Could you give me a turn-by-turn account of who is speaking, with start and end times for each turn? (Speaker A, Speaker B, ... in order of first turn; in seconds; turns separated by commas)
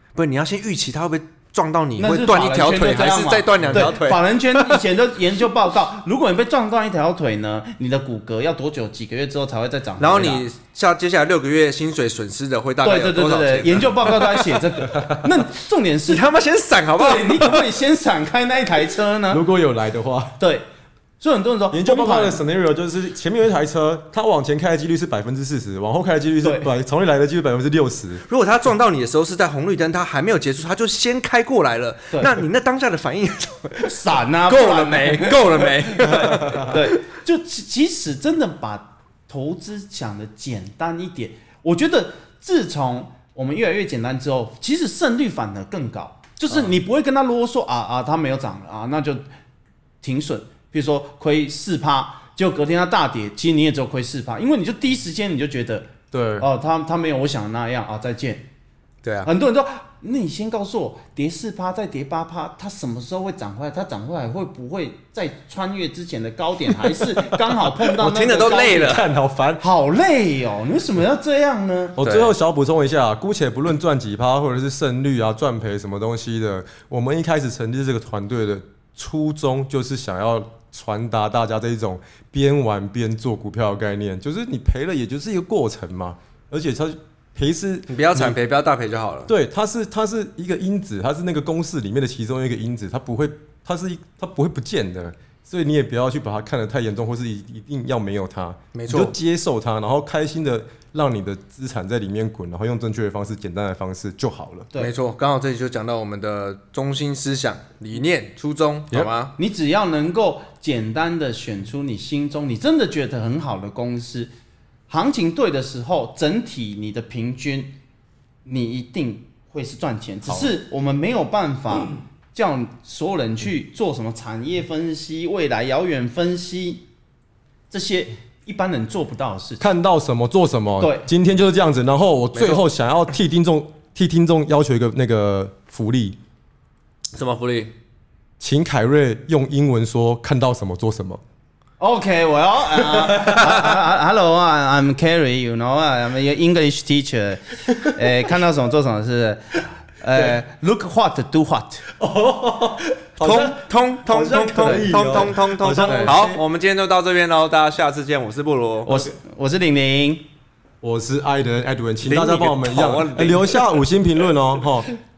Speaker A: 0.1-4.8, Speaker B: 2.0-10.4, Speaker C: 3.6-4.0, Speaker A: 10.0-14.6, Speaker B: 12.8-16.3, Speaker C: 14.9-15.3, Speaker A: 16.1-17.8, Speaker B: 16.9-19.4, Speaker C: 19.3-20.3, Speaker B: 20.4-20.6, Speaker B: 21.2-22.4, Speaker C: 21.7-28.2, Speaker B: 26.4-26.7, Speaker A: 28.3-36.9, Speaker B: 33.8-49.2, Speaker C: 36.1-36.7, Speaker B: 50.0-58.4, Speaker C: 56.1-56.5, Speaker A: 59.0-59.3, Speaker B: 59.2-69.0, Speaker A: 67.7-69.1, Speaker C: 68.6-69.7, Speaker B: 69.6-72.0, Speaker C: 72.0-88.4, Speaker A: 72.0-72.3, Speaker A: 87.9-89.3, Speaker C: 89.3-104.7, Speaker A: 98.7-99.1, Speaker A: 104.8-109.3, Speaker B: 109.4-114.3, Speaker B: 114.9-117.8, Speaker B: 118.4-126.8, Speaker C: 120.3-120.5, Speaker B: 127.7-129.7, Speaker C: 129.6-136.2, Speaker B: 130.8-131.1, Speaker A: 132.3-132.6, Speaker A: 137.1-137.7, Speaker C: 138.4-141.2, Speaker B: 141.8-151.8, Speaker C: 142.8-143.7, Speaker C: 152.0-156.4, Speaker A: 153.2-159.0, Speaker B: 154.6-155.2, Speaker B: 155.8-156.2, Speaker B: 158.8-160.2, Speaker C: 160.8-164.9, Speaker A: 162.0-163.8